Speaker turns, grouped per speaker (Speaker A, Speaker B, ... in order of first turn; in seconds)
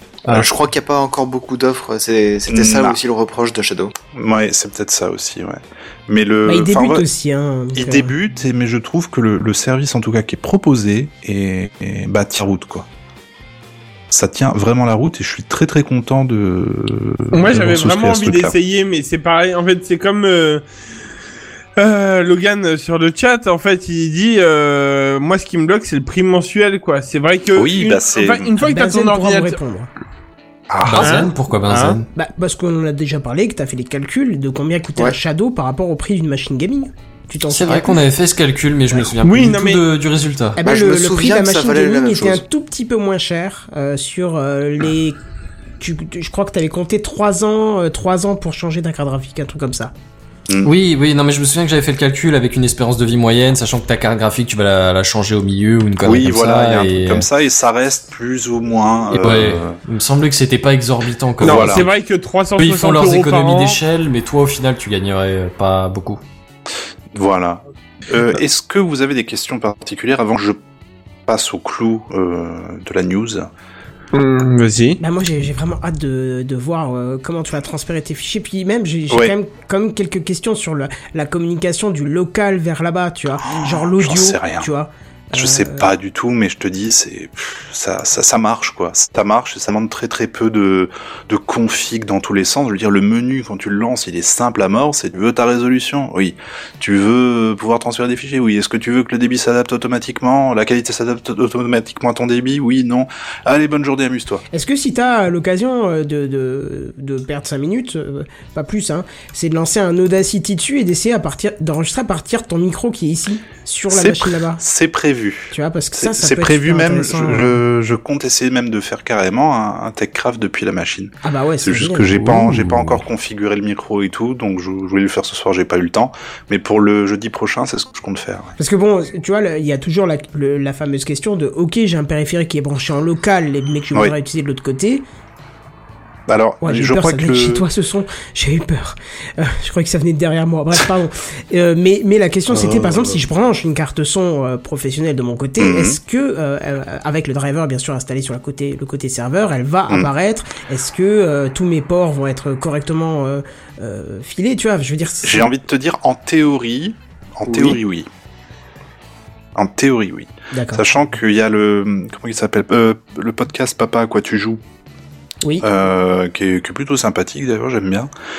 Speaker A: 0.3-4.0, 40.6-42.4, 157.5-157.8
Speaker B: 2.5-3.0, 4.1-7.0, 7.7-12.9, 14.1-18.5, 27.6-28.5, 30.7-31.3, 50.5-50.7, 56.0-59.8, 61.4-61.9, 67.1-70.6, 71.3-73.5, 83.4-84.7, 85.3-104.4, 113.9-128.5, 136.3-137.7, 142.5-143.2, 145.6-146.0, 155.2-158.1, 159.6-164.6, 165.6-168.1
Speaker C: 6.5-8.1, 28.6-29.9, 32.1-38.0, 40.6-45.2, 45.8-49.9, 75.0-85.9, 104.5-114.6, 115.5-117.6, 121.2-122.5, 128.6-135.1, 136.6-155.5, 160.5-160.8
Speaker D: 17.3-20.6, 21.8-29.6, 31.0-32.0, 39.2-39.8, 61.4-63.8, 74.1-75.0
Speaker E: 30.8-32.1, 37.5-40.6, 50.6-57.3, 59.1-61.9, 62.6-66.2, 122.4-123.0